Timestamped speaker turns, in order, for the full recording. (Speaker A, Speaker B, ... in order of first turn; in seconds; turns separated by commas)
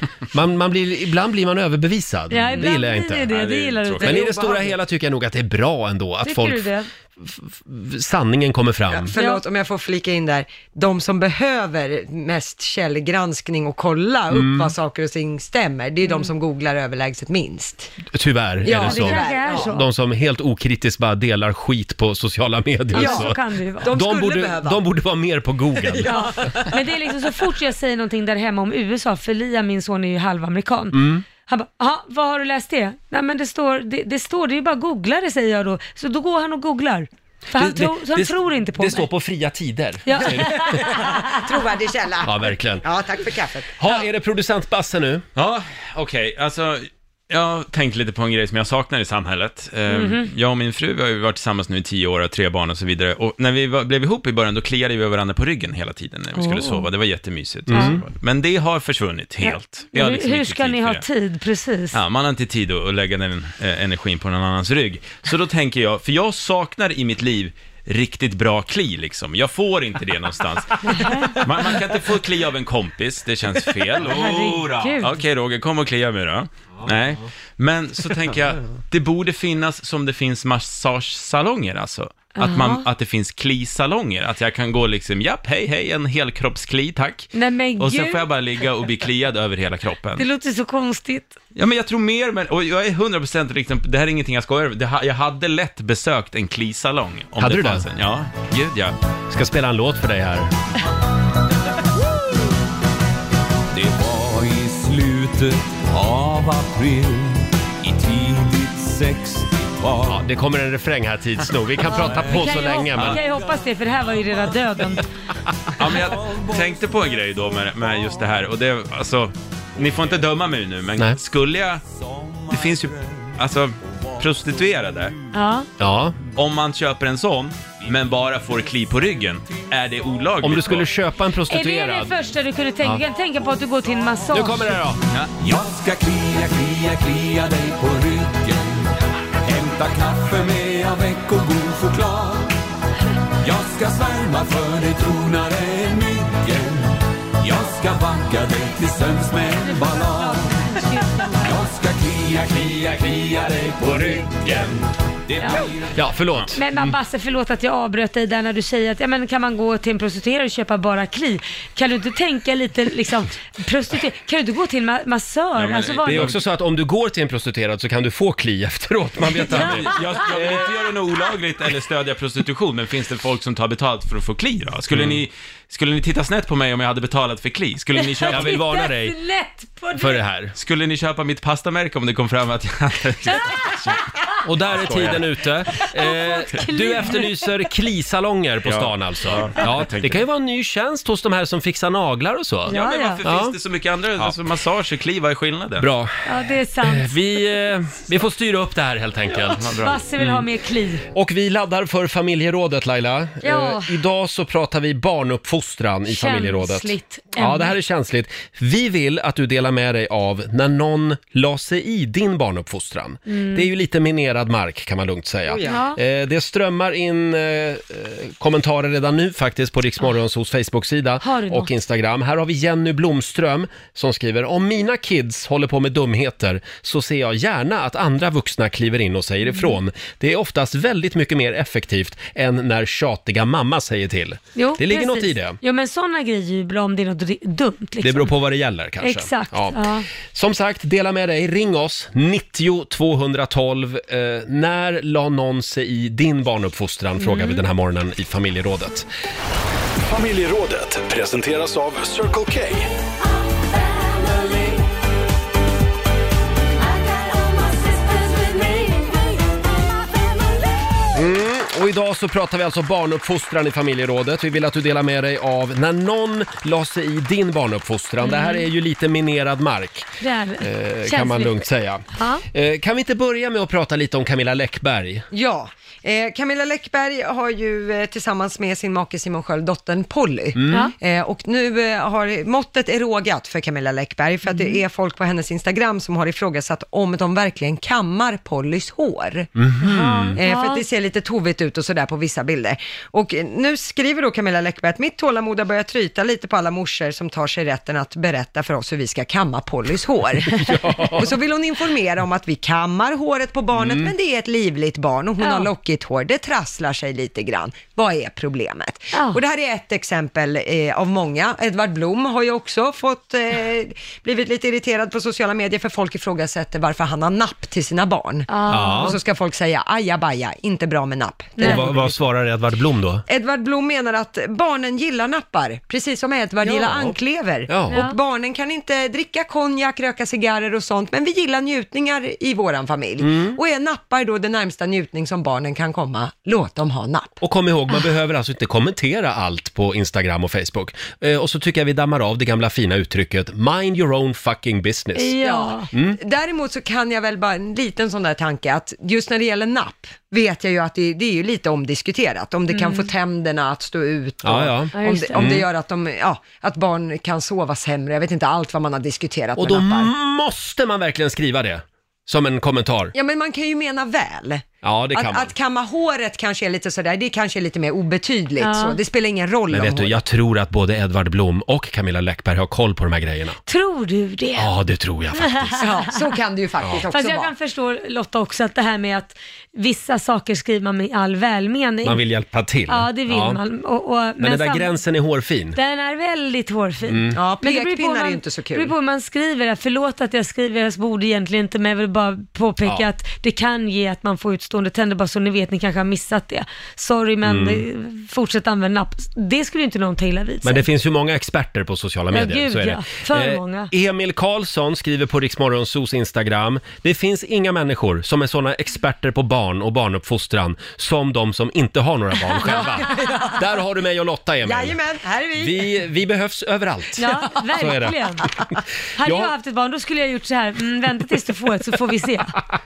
Speaker A: 0.3-9.1, Speaker B: 2.3-4.4, Speaker C: 3.3-4.2, Speaker D: 4.1-4.8, Speaker B: 6.2-6.9, Speaker D: 8.9-17.9, Speaker A: 14.3-14.7, Speaker A: 18.1-26.3, Speaker D: 18.6-19.7, Speaker B: 18.7-19.9, Speaker B: 22.9-23.9, Speaker D: 23.0-24.8, Speaker D: 25.8-26.8, Speaker B: 26.1-39.1, Speaker A: 30.9-31.2, Speaker A: 37.5-41.1, Speaker B: 40.1-41.2, Speaker D: 40.6-43.7, Speaker A: 42.2-42.9, Speaker A: 43.8-45.2, Speaker C: 45.4-61.0, Speaker B: 49.9-50.3, Speaker B: 56.4-56.9, Speaker A: 57.7-58.0, Speaker B: 57.7-58.0, Speaker B: 59.4-62.0, Speaker C: 61.9-90.3, Speaker B: 70.8-71.5, Speaker A: 74.0-75.0, Speaker B: 74.1-75.1, Speaker B: 82.4-82.9, Speaker B: 87.3-88.2, Speaker B: 90.2-91.3, Speaker C: 91.5-99.0, Speaker A: 97.4-97.9, Speaker A: 99.3-100.5, Speaker E: 103.8-107.4, Speaker E: 108.0-110.0, Speaker A: 110.0-113.2, Speaker B: 111.8-115.1, Speaker C: 115.8-121.8, Speaker C: 122.5-125.2, Speaker B: 125.3-125.7, Speaker A: 125.8-126.2, Speaker C: 126.3-130.9, Speaker A: 130.4-132.2, Speaker B: 131.5-134.8, Speaker A: 134.3-135.0, Speaker C: 135.1-135.3, Speaker E: 135.4-138.8, Speaker E: 139.5-142.5, Speaker E: 143.5-146.9, Speaker E: 147.4-149.5, Speaker B: 149.6-151.6, Speaker E: 151.7-154.4, Speaker B: 155.4-155.7, Speaker A: 155.9-156.9, Speaker B: 156.5-166.4, Speaker C: 165.6-166.4, Speaker A: 166.1-170.7, Speaker C: 169.4-178.6, Speaker B: 169.4-170.2, Speaker A: 174.9-175.2, Speaker B: 178.0-180.2, Speaker A: 178.3-179.2, Speaker A: 179.9-180.5, Speaker C: 180.6-184.0, Speaker B: 183.2-184.0, Speaker A: 184.4-193.6, Speaker C: 184.7-185.2, Speaker B: 185.8-187.4, Speaker C: 188.7-190.2, Speaker B: 192.7-193.2, Speaker C: 192.7-195.9, Speaker A: 195.8-196.2, Speaker B: 196.3-197.2, Speaker A: 196.8-200.4, Speaker C: 199.6-200.0, Speaker B: 199.7-201.1, Speaker A: 201.1-235.6, Speaker B: 203.4-204.0, Speaker B: 206.1-207.7, Speaker B: 213.3-213.7, Speaker D: 215.5-215.8, Speaker B: 215.6-216.0, Speaker B: 221.2-221.7, Speaker B: 229.5-229.8, Speaker B: 234.6-238.3, Speaker A: 238.0-249.1, Speaker B: 239.0-240.1, Speaker B: 247.2-247.6, Speaker F: 250.1-252.9, Speaker B: 257.6-259.1, Speaker A: 261.1-275.3, Speaker B: 268.2-268.6, Speaker B: 270.2-271.5, Speaker B: 272.1-272.4, Speaker D: 275.3-289.5, Speaker A: 280.6-280.9, Speaker A: 289.6-290.4, Speaker B: 289.8-290.8, Speaker D: 290.4-322.0, Speaker A: 300.5-301.3, Speaker A: 303.8-304.1, Speaker B: 305.4-305.7, Speaker B: 309.1-309.4, Speaker B: 318.5-319.1, Speaker A: 318.7-319.2, Speaker B: 321.6-321.9, Speaker A: 321.6-323.2, Speaker D: 323.3-337.4, Speaker A: 326.6-327.1, Speaker A: 327.7-328.0, Speaker B: 327.9-328.2, Speaker A: 333.2-333.6, Speaker A: 337.4-345.3, Speaker B: 345.1-345.9, Speaker D: 345.4-360.1, Speaker B: 352.7-353.1, Speaker A: 354.4-355.6, Speaker B: 355.0-355.4, Speaker A: 359.6-363.1, Speaker D: 363.1-370.2, Speaker A: 364.8-365.5, Speaker B: 368.6-369.0, Speaker A: 369.7-373.6, Speaker B: 373.7-374.7, Speaker A: 374.6-375.8, Speaker B: 375.4-375.9, Speaker D: 375.8-377.5, Speaker B: 377.1-382.2, Speaker A: 382.0-383.6, Speaker B: 382.9-385.0, Speaker A: 384.4-385.8, Speaker B: 385.7-400.9, Speaker A: 387.1-387.4, Speaker D: 387.3-388.9, Speaker A: 397.4-397.9, Speaker A: 400.6-415.0, Speaker B: 402.3-403.9, Speaker D: 412.7-413.6, Speaker D: 414.6-415.9, Speaker A: 415.6-418.2, Speaker B: 417.2-418.4, Speaker B: 419.2-422.6, Speaker A: 419.2-419.5